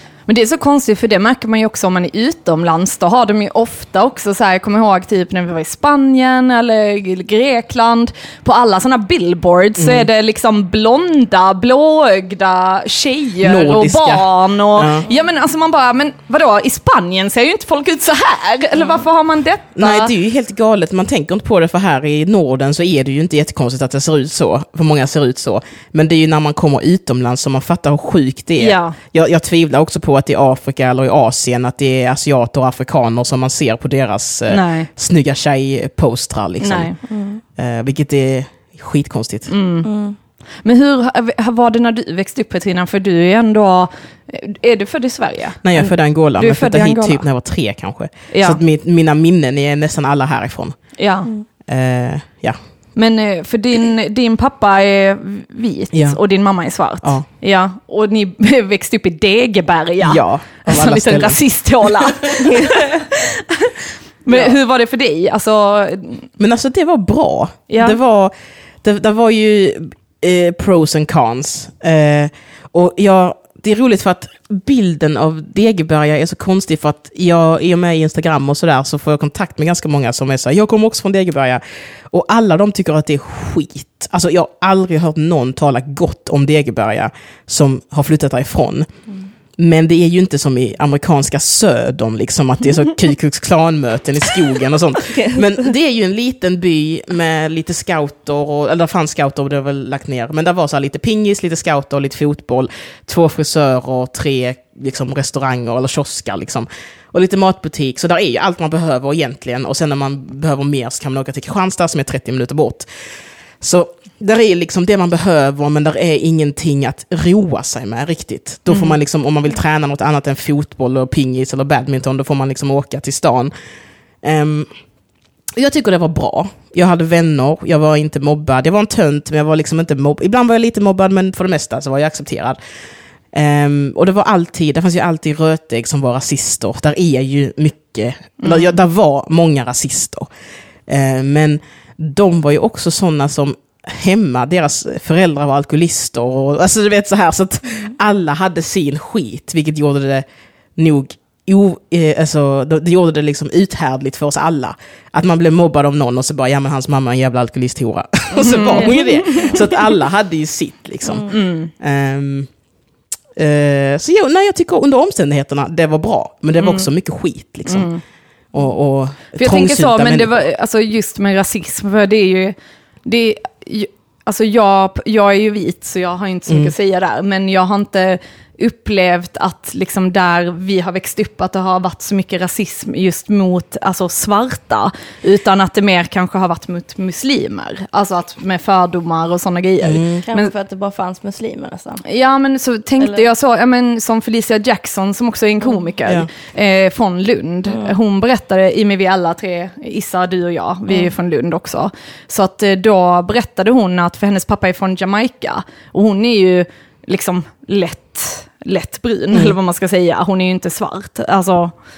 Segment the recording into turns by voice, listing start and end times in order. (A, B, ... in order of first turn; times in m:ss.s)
0:00.3-0:20.1 A
0:09.8-0:10.1 B
0:13.4-0:15.0 B
0:19.8-0:36.9 B
0:28.6-0:29.0 A
0:34.5-0:34.9 A
0:36.6-0:37.0 A
0:37.1-0:37.4 C
0:37.6-0:39.5 B
0:39.5-0:39.9 A
0:39.8-0:40.2 C
0:40.6-0:47.2 A
0:45.6-0:50.8 B
0:48.3-0:48.6 A
0:51.0-0:51.3 A
0:51.7-0:52.6 B
0:53.0-1:06.3 A
0:55.9-0:56.2 B
1:00.0-1:02.6 B
1:04.3-1:04.6 B
1:06.4-1:28.9 B
1:07.7-1:08.0 A
1:29.6-1:52.9 B
1:35.2-1:35.7 C
1:53.6-2:03.5 B
2:04.2-2:04.7 B
2:05.6-2:12.6 B
2:13.3-2:20.3 B
2:18.4-2:18.7 A
2:20.9-2:30.2 B
2:30.8-2:42.5 B
2:38.3-2:39.7 A
2:38.7-2:39.6 C
2:41.3-2:41.7 A
2:43.4-2:47.9 B
2:46.6-2:46.8 A
2:47.6-2:48.0 A
2:48.5-2:50.4 B
2:49.4-3:10.5 A
3:09.8-3:10.2 B
3:10.2-3:12.0 C
3:12.0-3:31.7 A
3:17.7-3:17.9 C